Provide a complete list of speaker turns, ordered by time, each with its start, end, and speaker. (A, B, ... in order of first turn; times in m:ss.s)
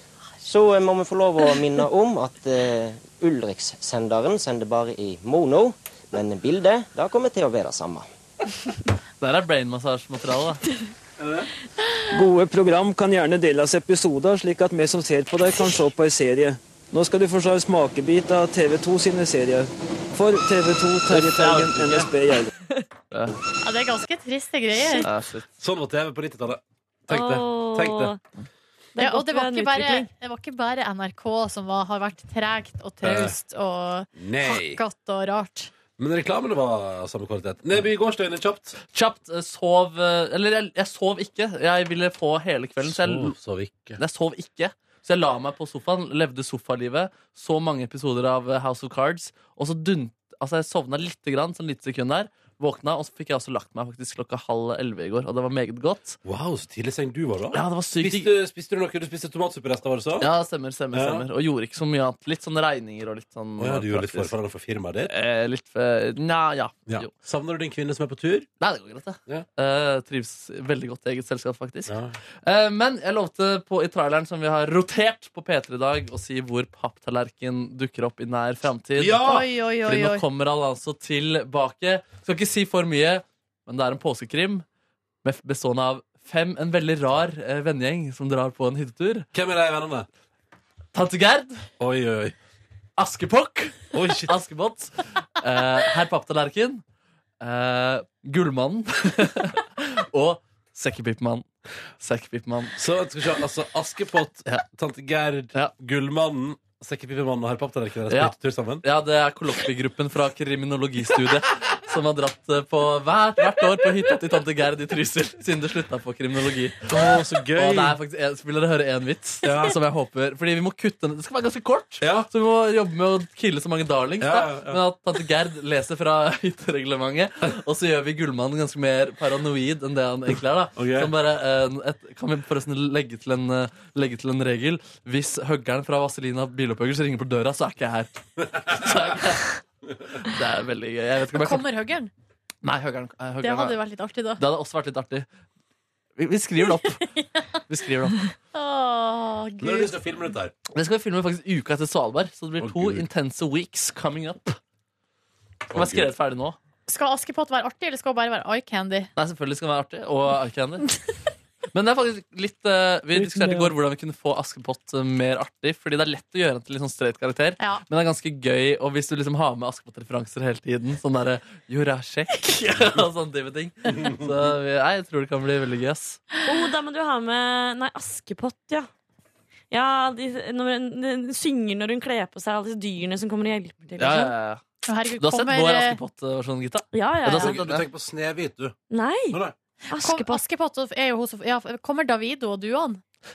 0:00.4-0:08.1 A
0:09.2-0:10.6 B
0:11.2-0:11.5 C
0:12.1-0:22.5 D
0:21.1-0:22.1 B
0:23.1-0:23.4 B
0:23.6-0:25.1 E
0:25.0-0:25.5 B
0:25.6-0:28.1 C
0:27.1-0:28.2 F
0:29.0-0:30.1 F
0:29.0-0:35.7 E
0:33.0-0:33.4 C
0:34.2-0:34.8 C
0:36.0-0:38.8 C
0:38.9-0:43.4 B
0:42.8-0:44.0 C
0:44.0-0:56.2 B
0:56.2-1:00.3 C
0:57.5-0:58.3 B
1:00.2-1:04.3 B
1:00.9-1:01.3 C
1:03.6-1:05.1 C
1:05.1-1:07.1 B
1:06.9-1:08.5 C
1:08.6-1:19.3 B
1:11.9-1:12.2 C
1:19.0-1:19.5 C
1:19.2-1:20.2 E
1:19.8-1:24.6 B
1:25.2-1:29.3 B
1:29.3-1:30.1 C
1:30.9-1:31.7 B
1:31.8-1:32.4 C
1:33.0-1:36.8 B
1:33.9-1:34.3 C
1:37.4-1:41.4 B
1:42.0-1:42.8 B
1:42.8-1:48.8 C
1:48.1-2:18.1 B
1:56.9-1:58.0 C
1:59.4-1:59.8 C
2:02.0-2:02.3 C
2:04.2-2:04.8 C
2:10.8-2:11.1 C
2:18.4-2:19.1 C
2:18.7-2:19.5 B
2:20.2-2:21.7 B
2:21.4-2:22.1 E
2:22.6-2:23.8 B
2:23.4-2:24.4 E
2:24.4-2:25.3 B
2:26.2-2:27.1 B
2:27.2-2:27.5 E
2:27.7-2:28.3 B
2:28.5-2:30.0 E
2:29.6-2:30.5 C
2:30.7-2:34.6 B
2:32.6-2:33.1 C
2:35.7-2:36.1 C
2:35.7-2:36.6 B
2:36.9-2:39.1 E
2:39.2-2:40.9 B
2:41.7-2:56.2 B
2:56.4-2:58.9 F
2:59.7-3:04.3 F
3:04.0-3:04.6 B
3:04.9-3:06.0 E
3:05.2-3:07.8 B
3:06.9-3:07.5 F
3:07.3-3:08.8 C
3:08.9-3:10.4 F
3:09.3-3:09.6 C
3:09.9-3:13.0 E